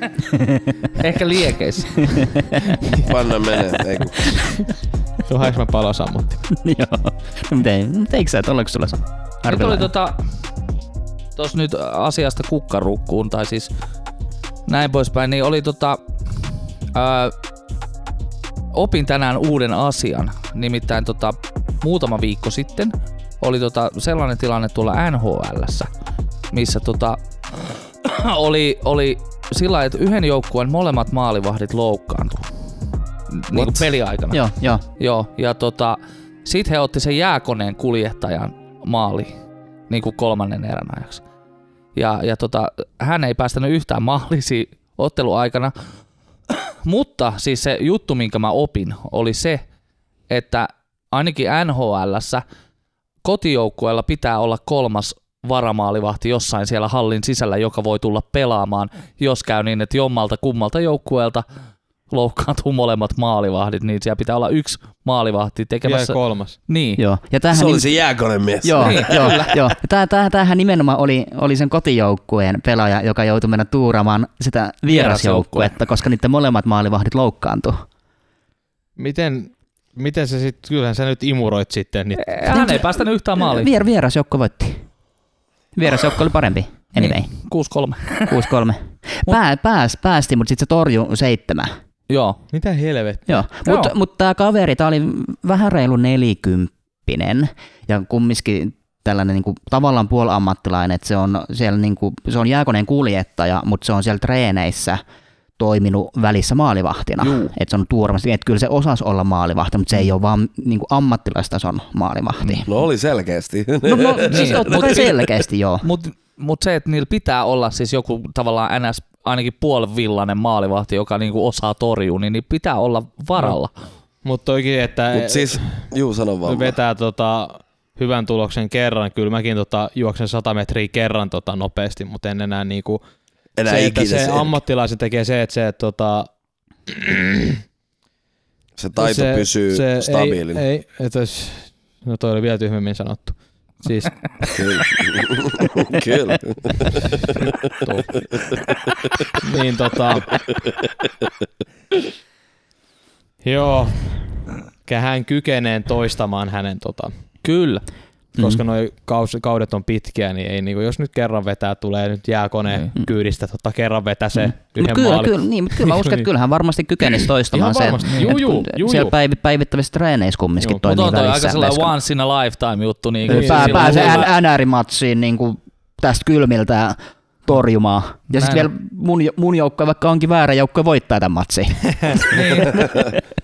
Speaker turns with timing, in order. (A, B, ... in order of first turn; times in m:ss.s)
0:00.3-0:00.7 A
0:01.0-0:02.2 B
0:02.0-0:02.8 A
0:03.0-0:04.4 C
0:05.2-0:06.4 D
0:06.5-0:09.9 A
0:09.5-0:10.2 B
0:11.4-0:13.7 B
0:14.7-0:16.0 B
0:17.0-0:17.3 B
0:18.7-0:25.9 B
0:26.5-0:32.5 B
0:33.3-0:39.3 B
0:33.5-0:33.8 C
0:34.3-0:34.8 A
0:39.9-0:41.2 B
0:42.0-0:45.7 B
0:46.5-0:49.6 B
0:50.3-0:52.4 B
0:53.2-1:01.4 B
1:02.1-1:07.0 B
1:05.8-1:06.6 D
1:07.0-1:07.9 A
1:07.5-1:09.6 C
1:08.6-1:17.8 A
1:08.8-1:09.5 B
1:14.8-1:15.7 B
1:19.0-1:22.4 D
1:22.2-1:23.7 B
1:22.4-1:24.8 A
1:25.7-1:27.3 A
1:27.0-1:28.5 B
1:28.3-1:31.7 A
1:32.1-1:32.4 B
1:32.5-1:33.4 D
1:33.3-1:45.0 A
1:33.6-1:33.9 B
1:45.6-1:52.7 A
1:47.2-1:47.5 B
1:52.7-1:55.1 C
1:53.8-1:55.9 A
1:54.2-1:55.0 B
1:55.8-2:03.7 B
2:04.2-2:05.9 D
2:05.1-2:06.8 C
2:06.4-2:13.0 D
2:13.6-2:14.6 C
2:13.7-2:16.3 D
2:16.9-2:17.6 D
2:18.8-2:20.6 C
2:19.0-2:24.2 D
2:24.5-2:27.6 C
2:29.4-2:30.4 D
2:33.4-2:34.1 D
2:34.8-2:37.1 D
2:37.4-2:37.8 B
2:38.4-2:46.2 D
2:44.3-2:52.0 A
2:47.5-2:49.1 D
2:48.0-2:48.3 B
2:50.9-2:54.3 B
2:53.3-3:03.1 A
2:53.3-2:54.3 D
2:58.3-2:58.7 B
3:02.3-3:02.9 B
3:02.8-3:03.0 C